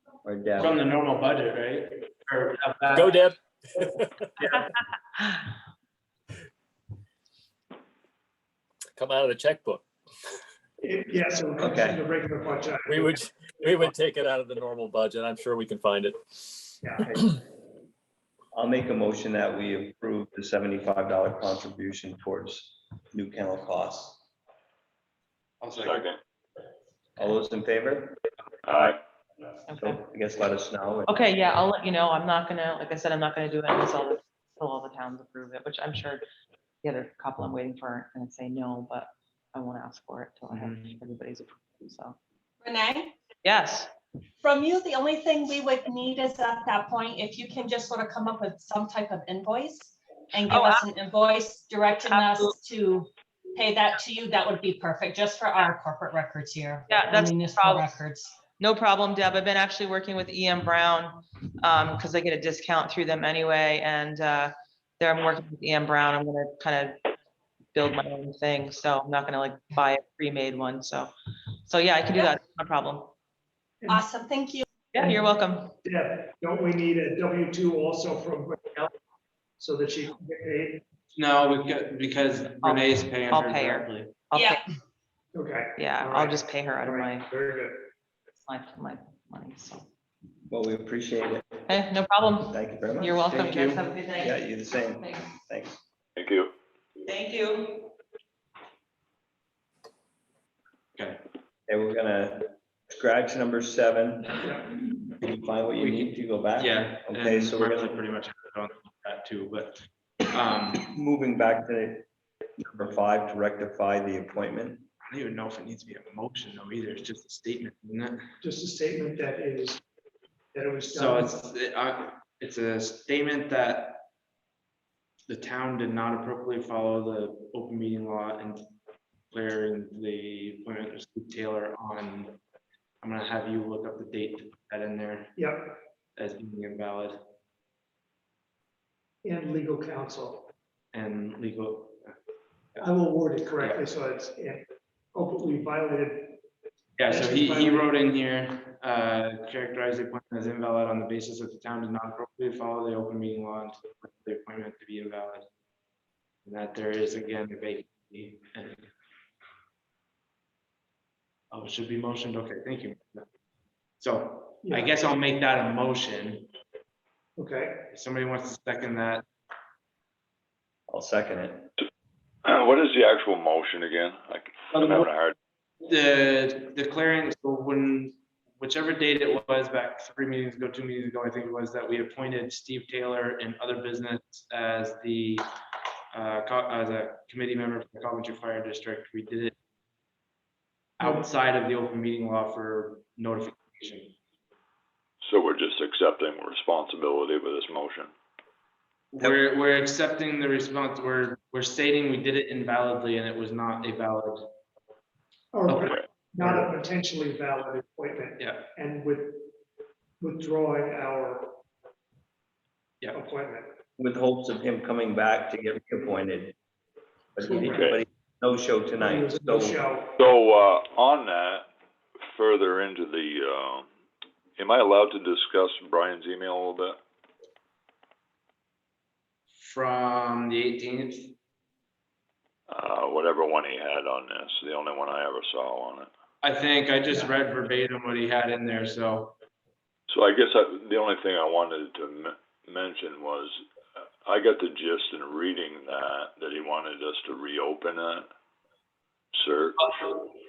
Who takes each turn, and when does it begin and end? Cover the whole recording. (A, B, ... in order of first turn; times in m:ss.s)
0:00.2-0:00.8 A
0:00.6-0:03.2 B
0:02.9-0:04.2 C
0:09.0-0:09.8 C
0:10.8-0:13.8 D
0:11.6-0:12.0 A
0:12.8-0:16.4 C
0:16.8-0:17.0 D
0:17.0-0:17.4 A
0:18.5-0:24.2 A
0:25.6-0:26.1 B
0:25.8-0:26.2 E
0:27.2-0:28.9 A
0:28.6-0:29.0 E
0:29.7-0:30.0 F
0:29.7-0:31.3 A
0:31.1-0:36.2 F
0:36.8-0:42.2 F
0:40.5-0:40.9 B
0:42.6-0:43.2 G
0:43.4-0:43.9 F
0:44.4-0:58.4 G
0:50.5-0:50.8 F
0:52.1-0:52.5 F
0:56.9-0:58.0 F
0:58.6-1:07.0 F
1:07.8-1:11.1 F
1:11.7-1:13.1 F
1:13.9-1:14.7 G
1:14.9-1:15.7 F
1:15.8-1:18.9 D
1:19.6-1:20.8 D
1:21.2-1:24.2 B
1:22.6-1:24.6 F
1:24.4-1:24.6 G
1:25.3-1:27.9 D
1:25.8-1:27.3 F
1:28.4-1:29.8 F
1:30.5-1:31.7 A
1:31.7-1:35.3 F
1:32.5-1:33.2 A
1:33.3-1:33.8 B
1:34.2-1:35.8 A
1:36.2-1:36.5 E
1:37.0-1:37.9 F
1:41.0-1:41.2 B
1:41.7-1:44.5 A
1:45.2-1:47.9 A
1:45.8-1:50.9 B
1:50.8-1:52.1 A
1:52.6-1:54.9 A
1:55.0-1:58.2 B
1:58.4-1:59.8 D
2:00.5-2:01.3 D
2:00.8-2:04.0 B
2:05.3-2:08.6 B
2:09.3-2:12.4 B
2:13.0-2:15.3 B
2:15.4-2:15.7 D
2:16.2-2:17.2 B
2:19.2-2:20.5 D
2:20.9-2:22.1 B
2:22.8-2:26.4 D
2:27.0-2:35.4 B
2:27.1-2:27.9 D
2:36.4-2:38.9 B
2:41.5-2:43.3 B
2:44.0-2:46.5 B
2:44.6-2:45.0 D
2:47.4-2:47.8 D
2:47.9-2:49.2 B
2:50.9-2:51.7 A
2:52.4-2:55.4 E
2:54.7-2:55.1 B
2:55.8-3:05.5 B
3:06.1-3:09.5 B
3:11.0-3:14.2 B
3:11.0-3:11.3 D
3:15.2-3:18.1 E
3:19.1-3:24.5 B
3:25.5-3:29.5 D
3:28.4-3:28.7 B
3:30.2-3:31.6 D
3:33.1-3:33.7 D
3:34.0-3:36.6 A
3:37.4-3:39.8 A
3:37.5-3:37.9 D
3:37.7-3:38.0 E
3:39.0-3:40.1 D
3:40.2-3:41.7 E
3:42.3-3:43.9 E
3:44.6-3:47.0 E
3:49.6-3:51.3 B
3:52.7-3:56.1 E
3:56.4-3:59.4 B
4:00.1-4:03.6 E
4:04.2-4:08.3 E
4:09.4-4:09.8 E
4:09.8-4:10.3 B